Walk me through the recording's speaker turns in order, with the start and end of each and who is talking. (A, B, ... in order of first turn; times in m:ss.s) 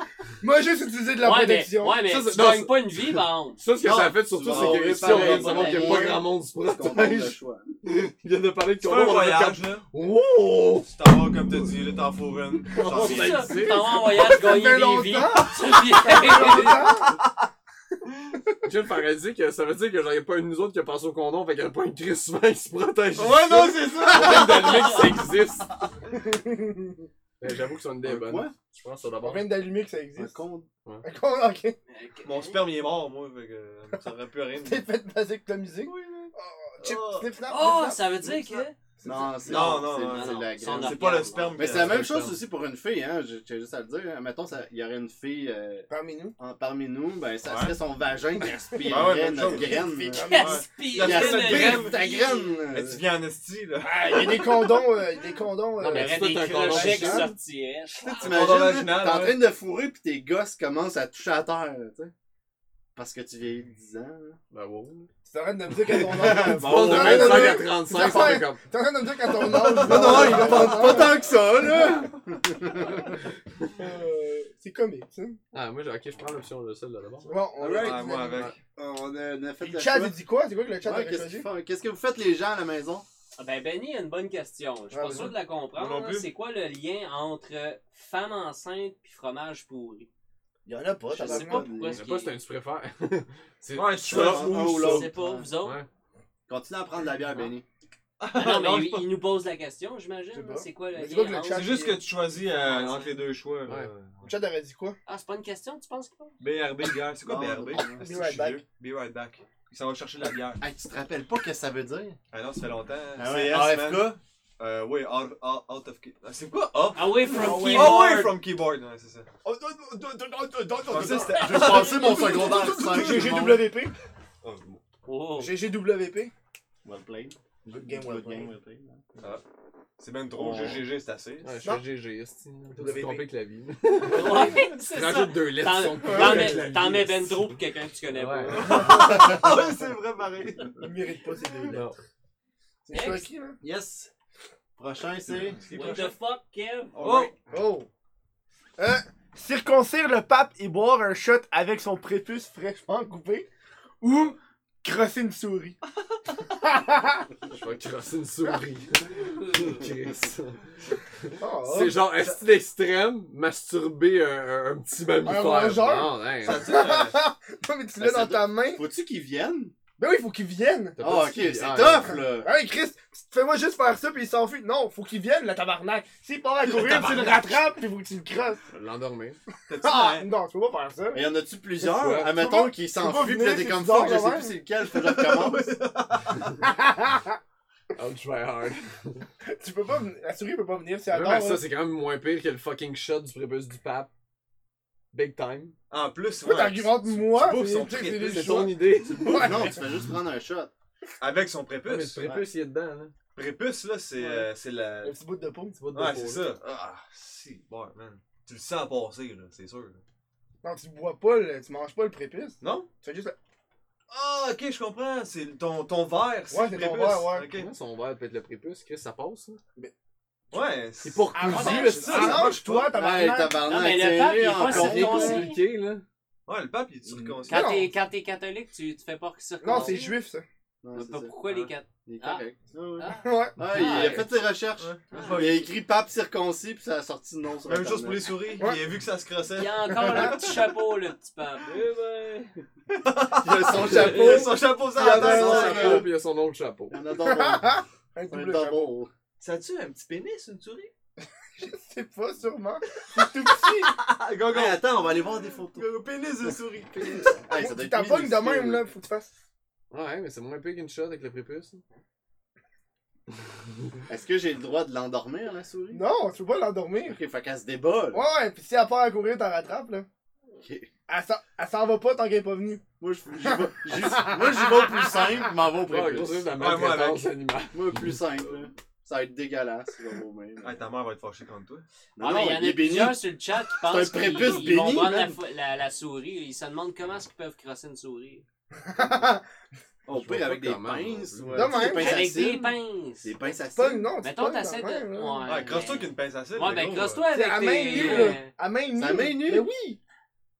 0:00.4-0:02.1 A
0:01.2-0:03.6 B
0:02.0-0:10.9 C
0:03.8-0:07.7 D
0:04.4-0:06.1 E
0:05.0-0:06.2 B
0:08.8-0:09.8 E
0:10.9-0:13.5 E
0:12.8-0:14.3 C
0:12.8-0:17.0 B
0:14.0-0:17.1 A
0:18.6-0:25.7 C
0:23.2-0:25.0 E
0:24.1-0:24.4 A
0:26.1-0:27.0 A
0:27.4-0:29.6 C
0:28.0-0:28.5 D
0:29.2-0:30.4 A
0:30.2-0:30.7 D
0:31.0-0:31.8 A
0:31.9-0:32.6 B
0:32.2-0:34.7 E
0:34.2-0:34.8 D
0:34.6-0:39.9 A
0:35.9-0:36.3 E
0:36.0-0:36.3 D
0:36.8-0:37.3 E
0:37.4-0:38.7 B
0:39.0-0:53.0 D
0:39.4-0:42.1 E
0:39.6-0:41.8 B
0:41.7-0:42.4 C
0:45.9-0:46.4 A
0:47.4-0:47.7 E
0:48.8-0:50.7 A
0:48.8-0:52.2 E
0:50.1-0:52.6 B
0:52.7-0:54.7 E
0:53.8-0:57.3 A
0:55.8-0:57.3 C
0:55.9-0:58.6 B
0:58.0-1:02.1 D
0:58.1-0:59.4 E
1:03.0-1:04.4 D
1:04.5-1:05.1 C
1:05.2-1:11.2 A
1:06.0-1:07.6 E
1:06.2-1:08.6 C
1:09.5-1:11.0 E
1:09.8-1:13.2 D
1:13.8-1:15.4 A
1:15.5-1:18.5 C
1:17.2-1:18.5 A
1:17.6-1:18.5 E
1:18.8-1:20.2 D
1:19.6-1:21.5 A
1:20.8-1:23.0 D
1:23.4-1:30.1 B
1:24.9-1:25.4 A
1:25.7-1:26.3 E
1:30.6-1:31.7 A
1:31.1-1:32.0 D
1:31.2-1:32.3 B
1:31.9-1:35.0 C
1:33.7-1:35.0 E
1:34.0-1:35.5 D
1:34.6-1:35.8 B
1:35.6-1:35.9 C
1:36.5-1:37.6 D
1:38.2-1:39.2 E
1:38.3-1:41.7 B
1:40.3-1:42.0 A
1:41.5-1:44.3 E
1:42.4-1:43.2 B
1:44.2-1:45.0 A
1:45.0-1:46.4 B
1:46.4-1:50.6 E
1:47.2-1:48.1 D
1:48.0-1:48.6 A
1:50.6-1:52.2 D
1:52.3-1:59.3 E
1:53.2-1:54.2 D
1:56.9-1:58.4 B
1:57.2-1:58.1 A
1:59.4-2:03.9 A
2:00.9-2:03.5 E
2:01.3-2:03.7 D
2:04.4-2:04.8 E
2:05.0-2:05.6 B
2:05.4-2:06.3 A
2:06.8-2:09.0 D
2:07.6-2:08.5 A
2:10.0-2:11.5 E
2:10.3-2:10.8 D
2:11.4-2:17.6 C
2:12.7-2:13.3 A
2:14.0-2:19.1 B
2:16.0-2:16.7 A
2:18.1-2:18.6 C
2:18.5-2:20.8 E
2:20.8-2:21.9 A
2:21.7-2:22.0 C
2:22.8-2:23.6 A
2:22.9-2:23.2 B
2:23.6-2:24.1 D
2:24.8-2:25.6 D
2:25.6-2:26.2 E
2:25.7-2:27.3 B
2:27.0-2:27.3 E
2:27.0-2:27.3 D
2:27.5-2:27.9 A
2:28.8-2:33.5 A
2:34.0-2:35.8 A
2:36.5-2:37.3 A
2:37.5-2:40.6 C
2:41.2-2:46.7 C
2:41.4-2:42.0 A
2:45.2-2:48.8 A
2:46.4-2:47.2 E
2:48.0-2:49.7 D
2:50.0-2:51.0 A
2:51.0-2:52.2 C
2:51.0-2:52.5 D
2:52.4-2:58.7 A
2:56.8-2:57.3 E
2:58.7-2:59.4 C
2:59.7-3:00.3 E
2:59.8-3:01.2 A
3:01.1-3:05.8 D
3:01.8-3:02.3 C
3:02.2-3:04.6 A
3:04.9-3:06.5 E
3:06.6-3:07.4 A
3:08.0-3:09.2 C
3:09.5-3:11.6 A
3:11.1-3:14.1 C
3:15.1-3:15.8 C
3:15.9-3:18.7 E
3:16.4-3:19.8 A
3:18.2-3:19.8 C
3:19.2-3:20.7 D
3:21.2-3:22.2 E
3:21.8-3:23.1 C
3:23.3-3:25.1 E
3:24.2-3:24.5 A
3:25.0-3:25.8 A
3:25.8-3:26.6 C
3:25.9-3:30.0 E
3:30.6-3:33.3 A
3:32.6-3:32.9 E
3:34.1-3:37.7 E
3:36.5-3:37.5 A
3:37.5-3:39.6 C
3:40.5-3:43.0 E
3:41.0-3:42.6 C
3:41.3-3:43.7 A
3:41.5-3:42.4 B
3:42.8-3:45.5 D
3:43.6-3:45.6 B
3:44.5-3:46.0 C
3:46.5-3:47.9 E
3:47.5-3:47.9 A
3:47.5-3:50.2 B
3:49.6-3:50.4 A
3:50.8-3:51.3 D
3:50.9-3:52.4 B
3:51.4-3:51.7 E
3:52.0-3:58.4 D
3:53.0-3:54.3 B
3:53.2-3:53.6 A
3:54.8-3:55.7 E
3:55.1-3:55.5 B
3:57.6-4:00.6 E
3:59.5-4:02.5 B
4:00.0-4:00.3 A
4:02.9-4:06.0 E
4:03.4-4:06.1 D
4:04.9-4:06.0 A
4:05.1-4:07.0 C
4:06.9-4:09.1 D
4:07.2-4:08.9 A
4:09.4-4:10.9 E
4:11.6-4:14.0 A
4:13.8-4:17.3 E
4:14.5-4:15.9 D
4:16.4-4:18.8 D
4:17.5-4:19.3 A
4:19.9-4:21.8 C
4:24.1-4:26.0 D
4:25.9-4:27.2 A
4:27.0-4:28.2 D
4:28.1-4:30.1 A
4:30.6-4:30.9 D
4:31.1-4:32.8 A
4:33.0-4:36.5 D
4:33.4-4:34.9 A
4:35.9-4:38.2 C
4:36.5-4:37.3 E
4:37.7-4:40.9 D
4:40.6-4:41.8 E
4:42.2-4:43.2 D
4:42.2-4:48.4 B
4:43.8-4:45.4 D
4:48.9-4:49.4 A
4:50.1-4:54.1 D
4:50.1-4:51.8 C
4:51.5-4:52.3 A
4:51.8-4:53.3 B
4:53.7-4:55.7 A
4:54.2-4:58.5 B
4:55.4-4:57.2 E
4:57.3-5:00.0 A
4:57.9-4:58.2 E
4:58.9-4:59.7 D